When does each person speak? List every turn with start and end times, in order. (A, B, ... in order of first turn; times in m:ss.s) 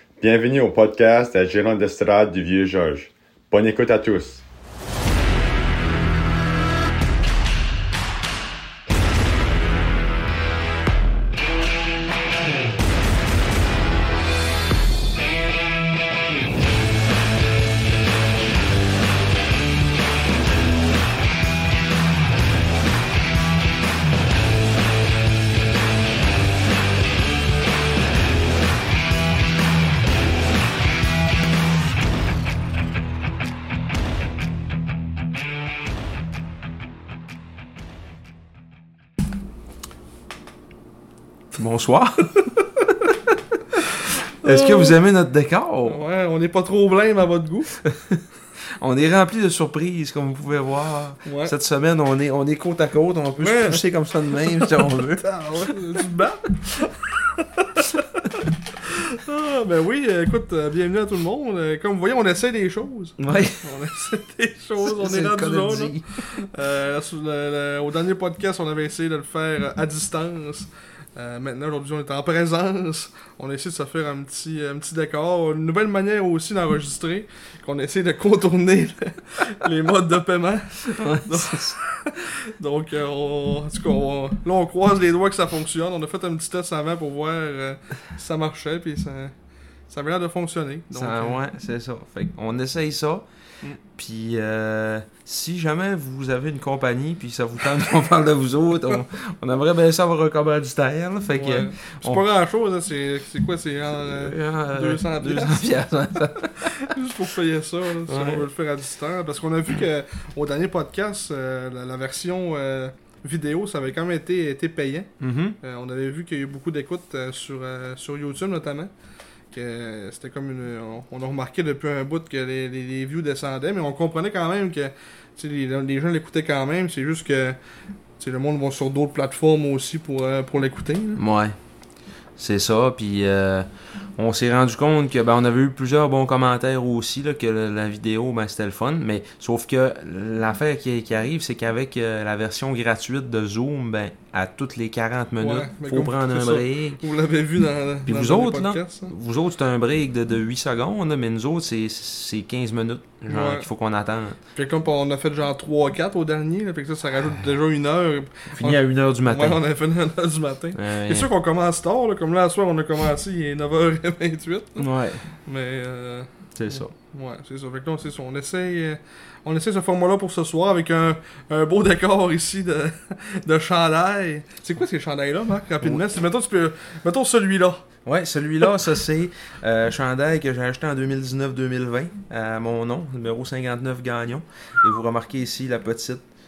0:00.2-0:04.4 A
0:41.5-0:42.3 B
0:44.4-0:45.0 C
0:44.4-0:46.0 B
0:45.8-0:47.8 C
0:47.8-0:48.2 B
0:48.8-0:55.7 B
0:51.2-0:51.5 C
0:53.4-0:53.8 C
0:54.6-1:29.3 C
1:03.2-1:03.6 B
1:04.8-1:06.1 B
1:20.8-1:21.8 B
1:29.9-1:31.4 C
1:30.9-1:33.3 B
1:33.9-1:42.2 B
1:41.3-1:45.7 C
1:43.9-1:46.9 B
1:46.7-1:58.9 C
1:48.1-1:48.5 B
1:55.2-1:55.6 B
1:59.5-2:07.6 C
2:08.2-2:11.2 C
2:11.2-2:11.6 B
2:12.4-2:27.0 B
2:25.4-2:29.1 C
2:28.0-2:34.4 B
2:33.3-2:33.7 C
2:34.5-2:44.9 C
2:38.5-2:39.6 B
2:40.7-2:41.3 B
2:44.8-2:45.2 B
2:45.4-2:57.8 C
2:46.6-2:46.9 B
2:58.0-3:06.2 B